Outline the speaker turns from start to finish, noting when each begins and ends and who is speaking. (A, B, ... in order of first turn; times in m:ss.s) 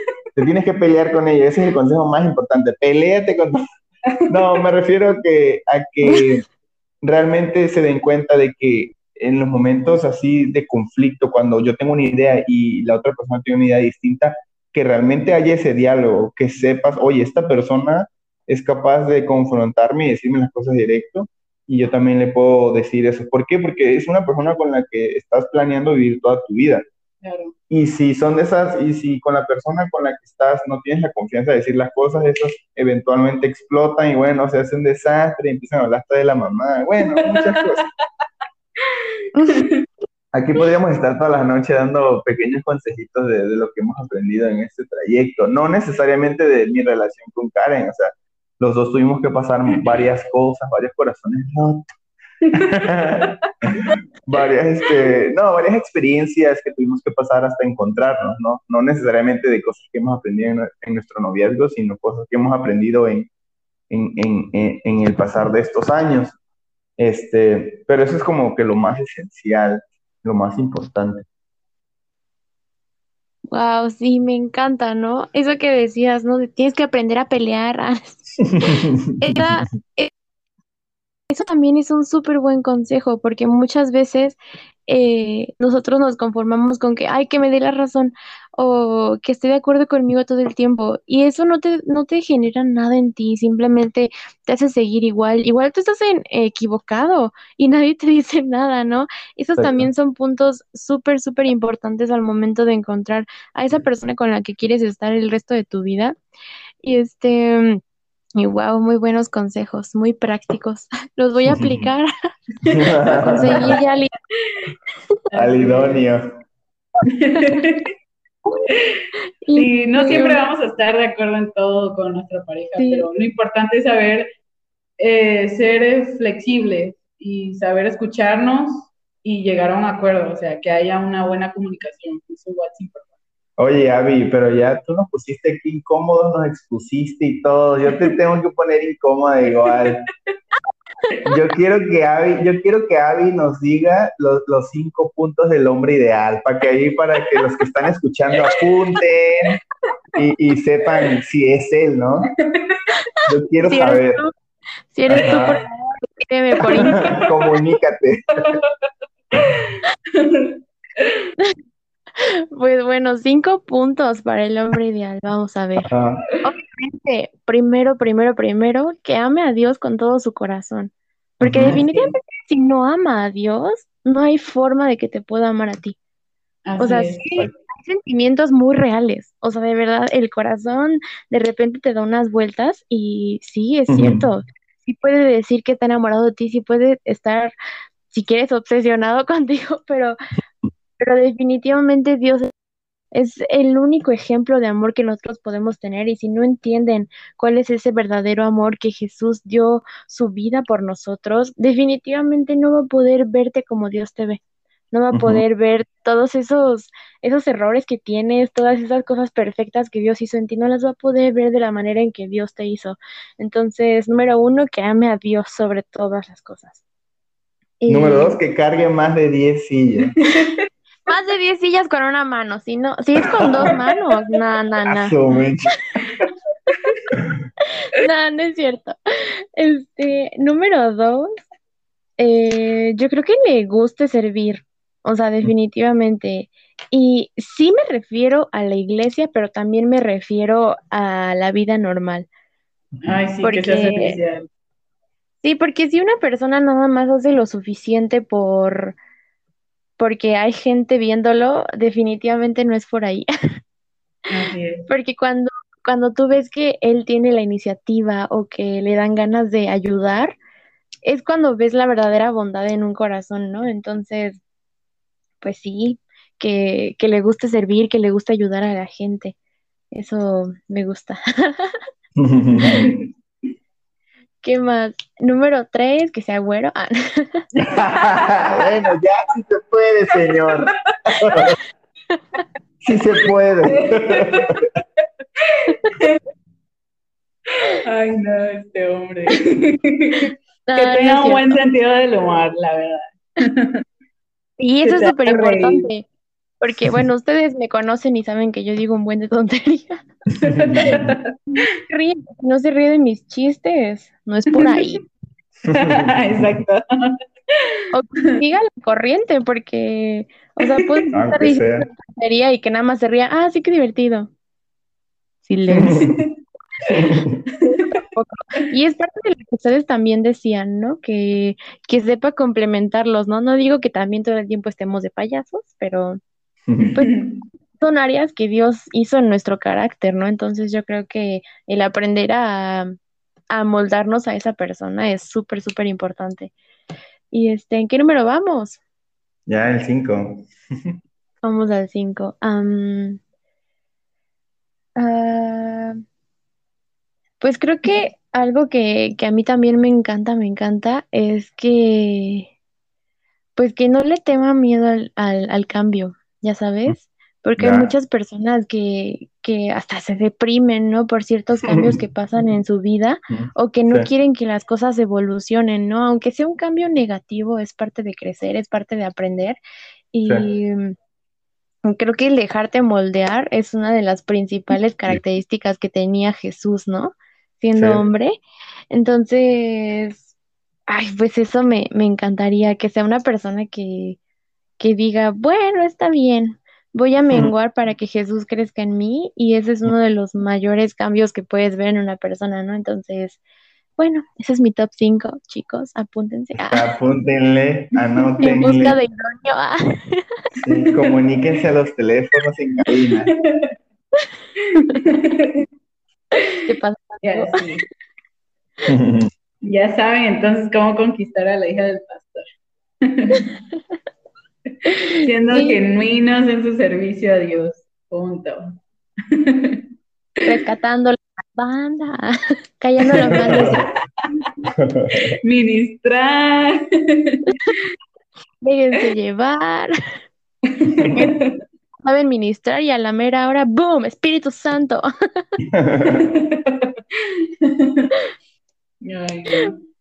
0:00.4-0:03.7 A
0:04.3-0:06.4 A
0:07.0-0:26.8 A
0:27.2-0:27.5 B
0:27.7-0:37.8 A
0:37.2-0:37.6 B
0:39.4-0:39.6 C
0:39.4-0:39.8 B
0:40.3-0:51.9 A
0:52.7-1:03.3 A
0:53.2-0:54.0 B
1:03.9-1:06.4 A
1:07.0-1:11.3 A
1:13.5-1:20.1 C
1:18.4-1:19.6 A
1:21.3-1:46.2 C
1:39.6-1:39.9 A
1:46.8-1:47.8 C
1:48.4-1:52.1 C
1:51.4-1:51.9 A
1:52.7-1:53.7 A
1:53.0-1:54.1 C
1:55.3-1:56.0 B
1:55.4-1:56.3 A
1:57.1-1:57.9 B
1:59.4-2:00.4 C
1:59.6-2:04.3 B
2:02.8-2:03.1 C
2:05.0-2:13.1 B
2:13.6-2:20.0 A
2:21.2-2:29.6 A
2:30.2-2:32.3 A
2:32.5-2:32.8 B
2:33.3-2:34.2 A
2:33.7-2:34.3 C
2:34.9-2:37.0 C
2:35.1-2:35.6 A
2:36.6-2:37.2 B
2:36.8-2:38.3 A
2:38.4-2:38.7 B
2:39.4-2:41.3 B
2:42.2-2:45.9 C
2:45.9-2:46.2 A
2:46.4-2:56.0 C
2:51.4-2:51.8 A
2:56.7-2:57.3 B
2:56.8-3:07.5 C
3:03.9-3:04.3 A
3:08.1-3:10.2 C
3:11.0-3:12.5 C
3:13.1-3:24.4 C
3:24.9-3:36.8 C
3:25.1-3:25.4 A
3:37.8-3:38.4 C
3:37.9-3:40.2 A
3:40.2-3:40.6 B
3:41.1-3:45.2 C
3:43.6-3:44.0 B
3:44.9-3:45.7 A
3:46.7-3:47.0 B
3:47.9-3:49.0 C
3:49.6-3:51.3 C
3:52.2-4:02.3 C
4:03.0-4:04.5 B
4:03.4-4:04.2 C
4:05.4-4:09.0 C
4:10.0-4:13.3 C
4:14.3-4:14.9 B
4:14.9-4:20.4 C
4:21.0-4:24.4 C
4:25.4-4:29.4 C
4:29.9-4:31.8 C
4:32.2-4:32.9 A
4:32.6-4:33.0 B
4:34.4-4:37.4 C
4:37.6-4:38.6 B
4:37.7-4:41.6 A
4:41.1-4:41.4 B
4:42.8-4:44.7 A
4:43.8-4:44.6 B
4:45.5-4:46.2 B
4:47.6-4:53.8 B
4:50.7-4:51.6 C
4:54.6-4:56.1 C
4:54.8-4:55.9 B
4:56.6-5:00.0 C
5:00.4-5:01.3 B
5:00.6-5:01.2 A
5:01.6-5:05.0 C
5:04.5-5:04.8 B
5:05.6-5:06.6 A
5:05.7-5:07.1 B
5:07.9-5:14.3 C
5:10.6-5:11.0 B
5:11.1-5:11.9 A
5:15.4-5:16.1 C
5:15.7-5:16.1 A
5:16.0-5:16.3 B
5:16.9-5:17.4 A
5:17.6-5:18.0 B
5:18.0-5:26.2 C
5:26.7-5:26.9 A
5:26.8-5:27.1 C
5:27.0-5:27.4 B
5:27.8-5:33.0 C
5:33.5-5:36.5 C
5:37.3-5:38.8 C
5:39.5-5:40.9 A
5:41.4-5:43.2 C
5:45.0-5:46.0 C
5:47.4-5:52.5 C
5:53.6-6:09.6 C
5:57.6-5:57.9 A
6:01.6-6:02.0 A
6:03.3-6:04.1 A
6:10.1-6:11.0 C
6:11.9-6:18.4 C
6:17.8-6:18.0 A
6:18.9-6:20.3 C
6:20.9-6:24.2 C
6:24.8-6:33.4 C
6:34.0-6:36.9 C
6:36.6-6:39.0 A
6:38.1-6:38.4 B
6:38.4-6:40.3 C
6:40.6-6:43.3 A
6:44.6-6:45.6 B
6:46.4-6:46.6 B
6:46.6-6:47.6 C
6:47.2-6:47.9 B
6:48.9-6:49.3 A
6:49.6-6:52.4 B
6:53.0-6:53.5 B
6:54.7-6:58.8 B
6:55.0-6:55.8 C
6:59.3-6:59.8 B
7:00.4-7:03.8 C
7:03.2-7:03.8 A
7:03.3-7:04.7 B
7:04.8-7:05.4 A
7:05.4-7:06.8 B
7:07.4-7:07.8 B
7:08.6-7:09.9 C
7:10.7-7:11.5 B
7:12.0-7:15.4 C
7:15.7-7:16.2 A
7:16.1-7:16.9 B
7:17.6-7:18.2 B
7:19.0-7:19.8 B